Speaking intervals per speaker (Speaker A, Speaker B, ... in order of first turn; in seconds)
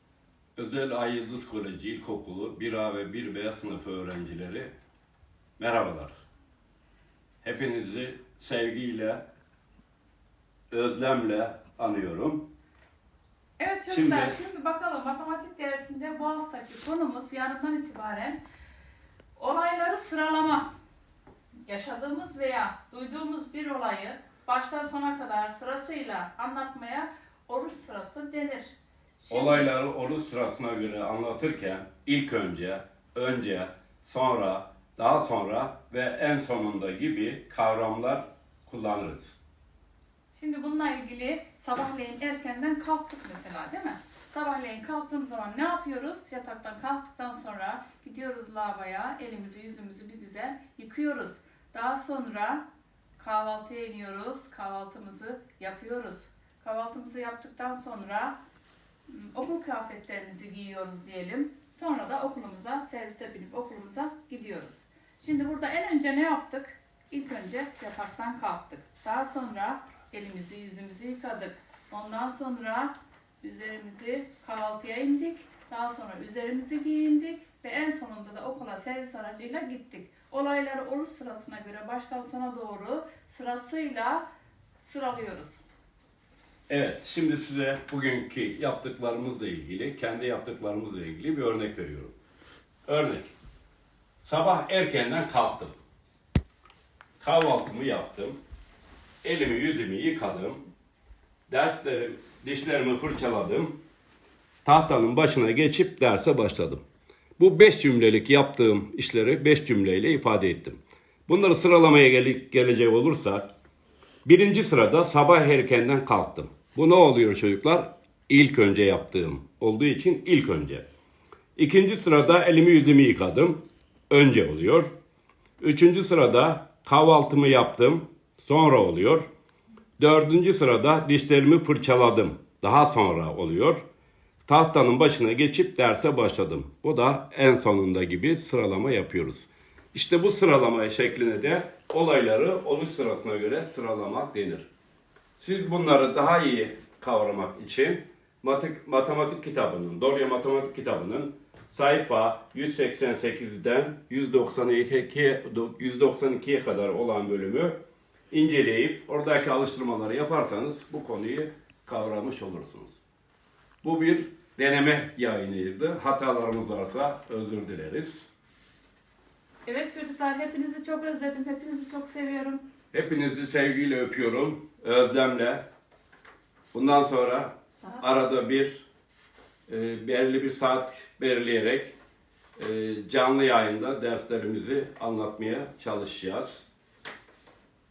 Speaker A: 0.6-4.7, 5.6-6.1, 7.4-9.2, 10.7-12.5, 13.9-14.4, 29.3-39.4, 86.7-92.1, 92.9-93.3, 94.2-95.7, 97.2-98.4, 99.2-100.6, 101.5-103.8, 104.7-106.8, 107.4-113.5, 114.2-120.8, 121.6-124.9, 125.6-129.3, 130.0-133.8, 134.5-144.7, 145.4-157.8, 158.3-163.0, 163.8-168.3, 172.9-175.6, 176.7-178.8, 179.7-181.9, 182.6-186.7
Speaker B: 13.6-18.4, 19.4-20.7, 21.7-29.7, 40.4-52.6, 53.2-58.4, 59.1-84.2, 84.8-85.6, 169.7-172.6, 177.8-178.1